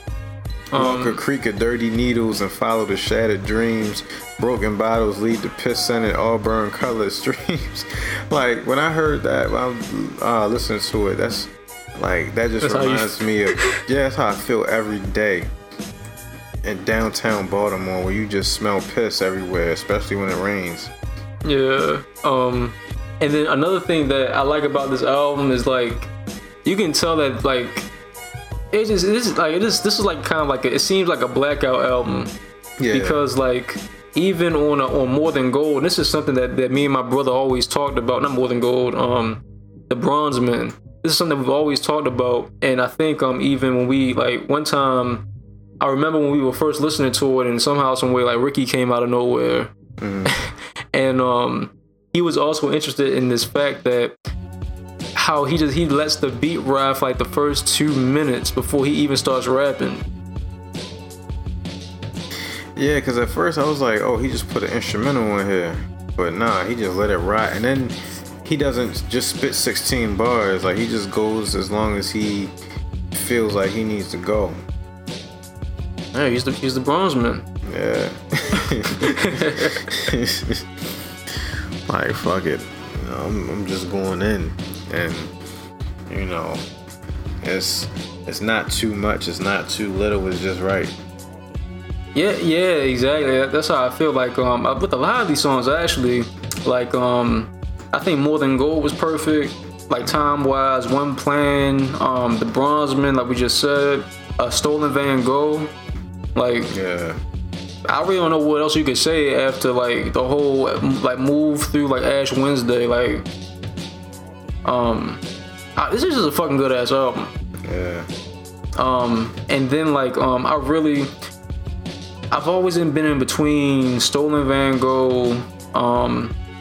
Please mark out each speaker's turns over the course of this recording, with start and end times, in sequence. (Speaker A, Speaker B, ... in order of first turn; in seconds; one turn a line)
Speaker A: 0.7-1.2
Speaker B: 0.7-15.5
Speaker A: 12.6-13.8
Speaker B: 16.6-20.9
Speaker A: 21.4-26.1
Speaker A: 26.6-27.9
Speaker A: 28.7-32.3
Speaker B: 32.8-33.2
Speaker A: 32.9-45.2
Speaker A: 45.8-49.7
Speaker B: 50.0-50.3
Speaker A: 50.2-54.1
Speaker A: 55.1-60.0
Speaker B: 62.8-72.5
Speaker B: 73.1-74.6
Speaker A: 76.1-77.4
Speaker B: 77.6-79.1
Speaker A: 79.0-79.8
Speaker B: 79.9-80.6
Speaker B: 81.9-85.3
Speaker B: 86.1-86.6
Speaker B: 87.4-90.9
Speaker A: 92.1-105.7
Speaker A: 106.3-106.7
Speaker B: 106.7-107.2
Speaker A: 107.8-113.3
Speaker A: 114.6-115.2
Speaker A: 115.8-117.3
Speaker B: 117.6-118.1
Speaker A: 118.8-121.1
Speaker A: 122.3-126.3